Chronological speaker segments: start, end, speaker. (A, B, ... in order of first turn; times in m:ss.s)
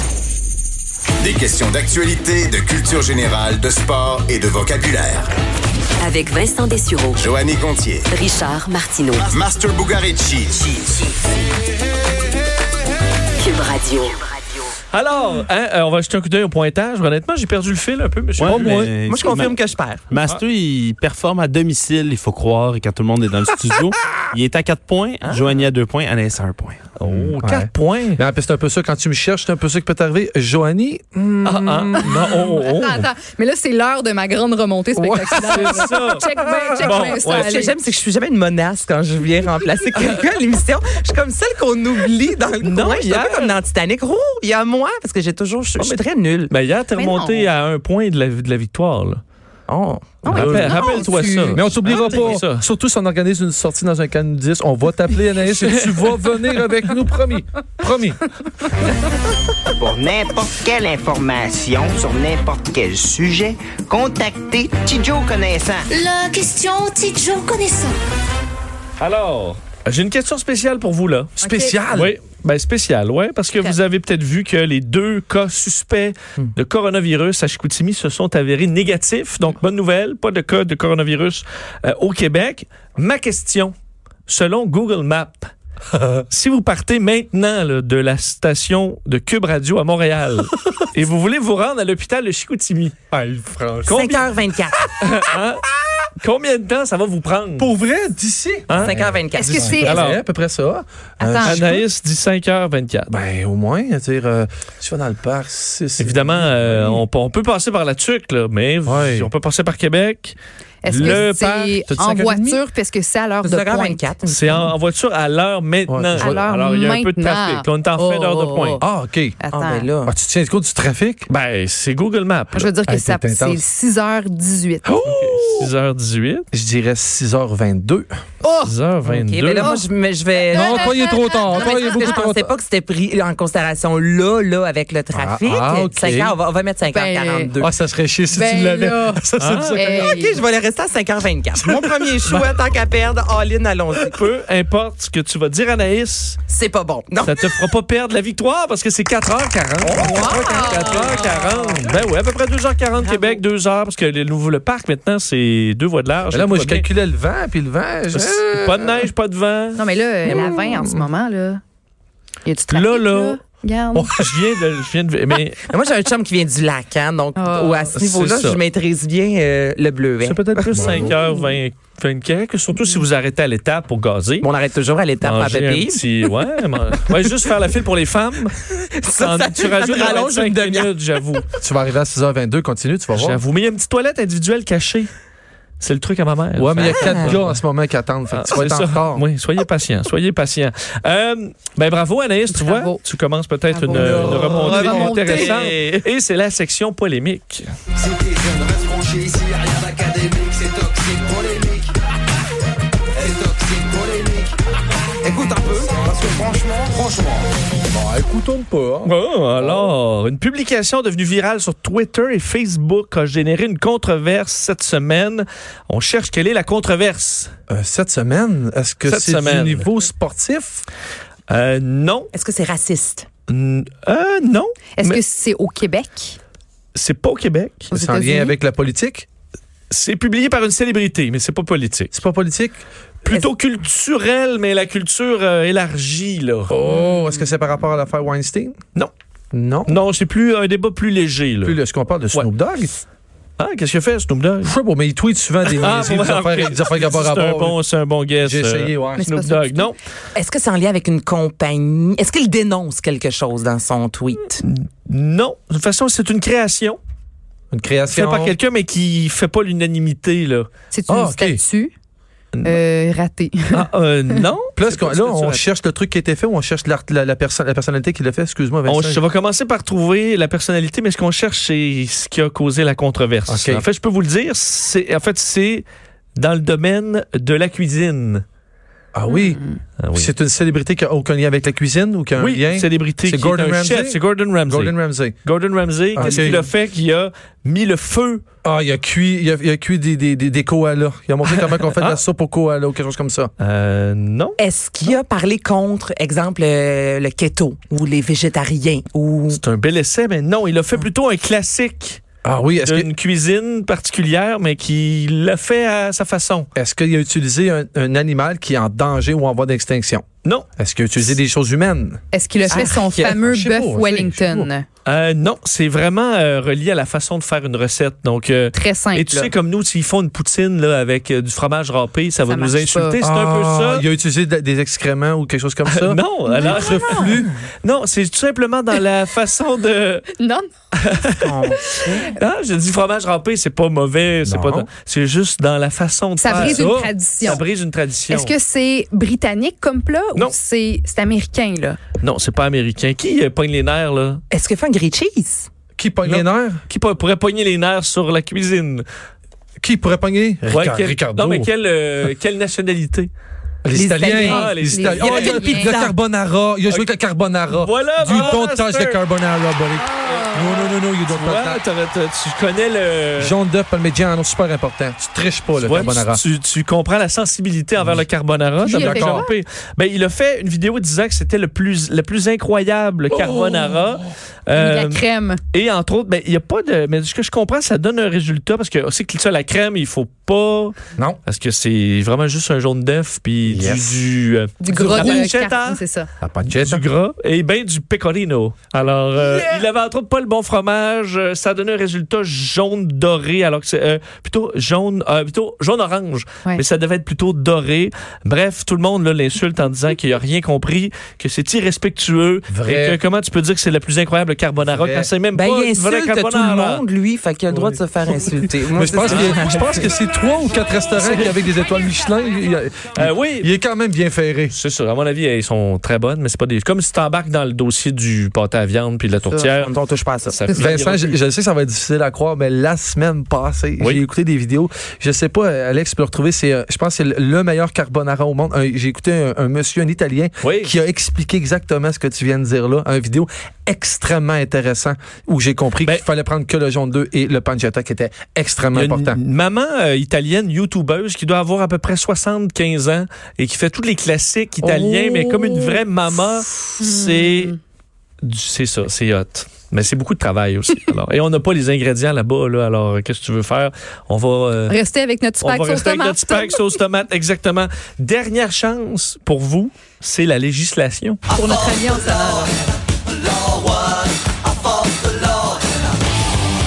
0:01.2-0:05.3 A
0:06.0-0:07.2 B
0:07.2-0:08.1 A
0:08.1-0:09.2 B
0:09.2-0:10.8 A
0:13.4-0:14.2 B
0:14.9-0:18.9 C
0:18.4-0:26.9 D
0:18.4-0:18.9 E
0:19.0-0:20.0 F
0:25.2-0:25.6 F
0:27.0-0:28.2 C
0:27.3-0:32.3 E
0:31.4-0:33.1 C
0:31.9-0:37.8 G
0:34.9-0:37.0 E
0:35.4-0:36.2 C
0:36.8-0:37.6 C
0:37.2-0:46.5 F
0:42.6-0:43.6 C
0:45.8-0:49.2 C
0:46.9-0:47.5 G
0:49.7-0:52.3 F
0:50.3-0:52.6 C
0:50.3-0:50.9 E
0:50.8-0:51.4 G
0:51.5-0:58.2 E
0:55.5-0:56.2 C
0:59.8-1:05.9 H
1:05.9-1:07.9 I
1:09.0-1:11.3 C
1:11.4-1:12.1 E
1:11.4-1:11.8 G
1:11.9-1:23.7 C
1:24.3-1:25.5 C
1:25.9-1:26.2 E
1:26.3-1:32.9 C
1:33.1-1:34.3 E
1:33.8-1:34.2 C
1:33.9-1:34.9 F
1:35.0-1:35.6 C
1:36.2-1:37.7 C
1:37.6-1:40.8 E
1:38.7-1:39.0 C
1:38.8-1:40.0 F
1:39.4-1:40.0 G
1:39.8-1:40.2 C
1:41.2-1:41.6 F
1:41.2-1:41.7 G
1:41.4-1:41.8 E
1:41.4-1:43.1 C
1:43.1-1:47.0 E
1:46.0-1:51.8 C
1:48.8-1:49.3 E
1:50.8-1:54.0 G
1:51.0-1:51.3 E
1:51.9-1:52.6 E
1:53.4-1:54.7 F
1:54.3-1:58.8 C
1:55.9-1:56.3 E
1:56.2-1:58.9 G
1:58.8-1:59.4 E
1:59.4-1:59.9 G
1:59.5-2:00.1 F
2:00.0-2:01.3 E
2:01.3-2:02.7 C
2:02.5-2:04.9 G
2:02.8-2:03.6 E
2:04.8-2:05.7 E
2:05.0-2:06.4 C
2:06.5-2:08.1 E
2:08.4-2:08.7 G
2:08.6-2:09.8 C
2:09.1-2:17.7 F
2:10.4-2:12.2 G
2:10.5-2:12.5 E
2:15.1-2:16.4 E
2:16.9-2:17.6 G
2:17.6-2:20.2 E
2:18.3-2:20.4 G
2:19.4-2:19.9 C
2:19.9-2:24.2 F
2:22.3-2:22.5 C
2:24.0-2:26.4 C
2:26.5-2:27.4 F
2:27.2-2:36.8 C
2:29.8-2:31.2 E
2:30.0-2:31.4 G
2:31.6-2:31.8 F
2:33.0-2:33.4 F
2:36.3-2:39.1 E
2:38.1-2:39.8 C
2:39.8-2:41.6 G
2:40.2-2:41.0 E
2:42.4-2:44.1 G
2:42.7-2:43.4 C
2:43.9-2:44.5 E
2:44.2-2:45.6 C
2:45.7-2:51.2 F
2:47.4-2:47.9 G
2:47.9-2:48.6 C
2:50.2-2:54.5 C
2:50.7-2:51.2 E
2:54.4-2:56.0 F
2:55.2-3:01.5 C
2:58.8-3:00.9 F
3:01.6-3:03.4 E
3:03.2-3:05.1 C
3:05.8-3:07.6 C
3:06.6-3:09.2 E
3:07.0-3:07.4 F
3:08.3-3:17.7 C
3:12.5-3:13.0 G
3:13.7-3:15.7 G
3:13.9-3:15.1 E
3:14.1-3:15.5 F
3:18.0-3:21.6 H
3:25.2-3:26.0 F
3:27.9-3:29.9 E
3:29.0-3:37.5 C
3:37.7-3:40.8 E
3:39.1-3:39.9 C
3:41.5-3:42.3 C
3:42.3-3:43.3 F
3:43.5-3:45.2 C
3:45.0-3:46.4 G
3:46.9-3:47.9 C
3:47.9-3:48.5 G
3:47.9-3:49.3 E
3:49.9-3:52.1 C
3:52.1-3:52.8 E
3:53.2-3:56.7 C
3:56.7-3:58.7 E
3:59.5-4:00.0 E
3:59.9-4:01.8 C
4:01.6-4:03.0 E
4:03.6-4:04.7 C
4:04.6-4:07.8 E
4:05.7-4:10.0 C
4:08.4-4:09.3 E
4:09.2-4:09.9 G
4:10.3-4:14.6 F
4:14.5-4:17.0 C
4:17.7-4:18.6 E
4:18.1-4:20.7 C
4:20.9-4:21.9 G
4:21.1-4:21.6 E
4:22.6-4:23.8 G
4:23.7-4:25.6 C
4:24.8-4:29.2 E
4:28.8-4:35.8 C
4:33.5-4:33.8 E
4:36.4-4:38.4 C
4:39.1-4:39.6 E
4:39.3-4:39.8 G
4:40.0-4:40.3 C
4:40.1-4:45.4 E
4:42.4-4:48.4 C
4:46.1-4:46.7 E
4:48.6-4:53.5 E
4:51.5-4:52.2 C
4:53.6-4:54.6 C
4:54.6-4:59.6 F
4:59.5-5:02.2 C
5:02.4-5:03.1 E
5:02.8-5:06.7 C
5:06.7-5:10.2 E
5:10.8-5:12.2 E
5:12.3-5:14.8 G
5:12.7-5:13.3 F
5:13.1-5:14.7 E
5:15.0-5:24.0 C
5:18.7-5:19.5 G
5:22.5-5:23.2 G
5:23.2-5:27.5 E
5:25.9-5:30.3 C
5:26.6-5:27.0 G
5:30.4-5:30.7 G
5:31.0-5:31.5 C
5:31.4-5:32.3 F
5:32.3-5:38.5 C
5:34.4-5:34.9 E
5:36.4-5:37.6 G
5:36.5-5:37.0 E
5:38.3-5:42.0 G
5:42.2-5:44.4 C
5:44.5-5:45.7 F
5:46.0-5:46.8 E
5:46.2-5:49.0 C
5:49.8-5:51.7 E
5:50.7-5:53.3 C
5:53.8-6:01.8 E
5:53.9-5:56.1 F
5:54.3-5:55.6 C
5:54.4-5:55.9 G
5:57.7-5:59.2 C
6:00.0-6:00.9 G
6:01.3-6:03.5 C
6:03.4-6:06.4 E
6:05.8-6:20.9 C
6:08.0-6:08.2 E
6:08.8-6:09.5 G
6:08.9-6:09.4 E
6:13.3-6:14.3 E
6:14.7-6:15.6 G
6:21.4-6:26.0 C
6:23.6-6:24.2 E
6:24.8-6:26.3 G
6:24.9-6:25.5 E
6:26.4-6:27.0 E
6:26.7-6:47.0 C
6:29.4-6:29.8 E
6:42.7-6:43.2 E
6:44.8-6:45.3 E
6:45.5-6:50.1 F
6:47.7-6:48.0 E
6:48.5-6:54.7 E
6:49.3-6:49.6 C
6:53.2-6:53.7 C
6:54.7-6:59.9 C
6:59.4-7:00.6 F
7:00.4-7:01.4 C
7:00.7-7:19.4 E
7:10.6-7:10.9 C
7:18.9-7:27.8 C
7:24.8-7:26.0 E
7:28.4-7:35.0 C
7:34.9-7:36.8 G
7:35.6-7:41.4 C
7:41.5-7:42.7 G